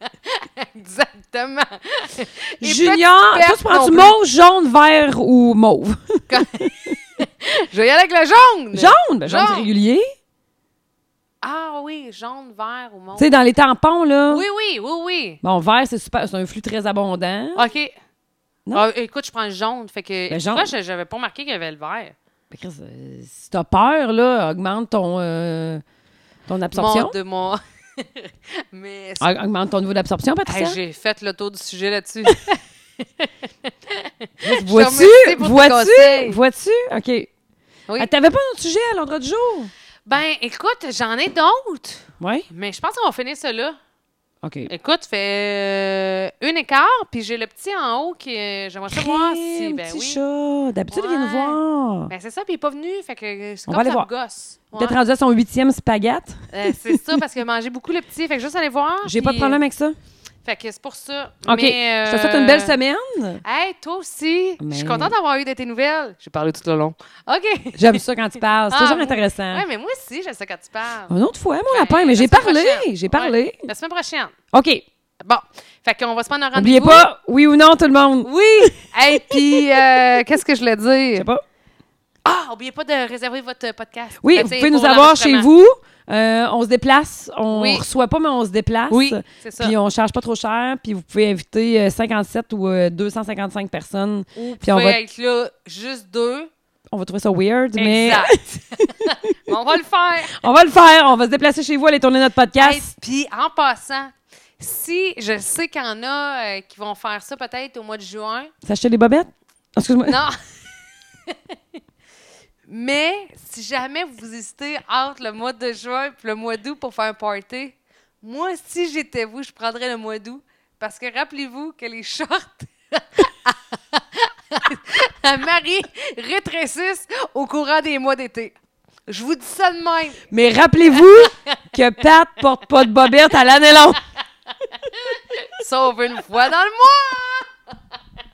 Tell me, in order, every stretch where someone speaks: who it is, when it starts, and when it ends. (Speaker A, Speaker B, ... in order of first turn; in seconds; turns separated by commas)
Speaker A: 0.3-4.2, Speaker B: 2.6-6.9, Speaker A: 6.3-9.7, Speaker B: 8.7-10.1, Speaker A: 11.4-13.3, Speaker B: 13.2-14.4, Speaker A: 14.3-15.4, Speaker B: 15.4-17.7, Speaker A: 17.6-17.9, Speaker A: 18.7-22.1, Speaker B: 20.3-20.7, Speaker B: 22.5-25.8, Speaker B: 26.5-27.1, Speaker A: 26.7-29.3, Speaker B: 29.2-30.8, Speaker A: 30.5-32.6, Speaker A: 33.2-36.4, Speaker B: 34.4-37.3, Speaker B: 38.0-39.7, Speaker A: 40.1-43.8, Speaker B: 42.2-42.5, Speaker B: 44.4-44.7, Speaker A: 44.7-50.2, Speaker B: 48.9-52.1, Speaker A: 50.9-55.0, Speaker B: 53.7-54.1, Speaker B: 54.8-57.2, Speaker A: 56.5-59.6, Speaker B: 59.0-60.0, Speaker A: 60.4-62.8, Speaker B: 61.5-63.4, Speaker A: 63.4-68.0, Speaker B: 64.6-65.1, Speaker B: 67.8-69.6, Speaker A: 68.7-71.1, Speaker B: 71.1-73.7, Speaker A: 71.7-74.3, Speaker B: 74.5-74.8, Speaker A: 75.2-77.1, Speaker B: 76.5-80.0, Speaker A: 78.2-81.3, Speaker B: 81.2-81.4, Speaker A: 82.2-85.5, Speaker B: 84.2-95.0, Speaker A: 87.5-87.8, Speaker A: 88.9-89.8, Speaker A: 94.4-96.5, Speaker B: 96.9-99.1, Speaker A: 97.8-100.4, Speaker B: 100.4-102.9, Speaker A: 102.6-108.5, Speaker B: 108.6-110.2, Speaker A: 110.1-110.3, Speaker A: 111.3-111.6, Speaker A: 112.7-128.6, Speaker A: 129.1-130.3, Speaker B: 130.3-134.0, Speaker A: 131.0-131.3, Speaker A: 134.8-137.5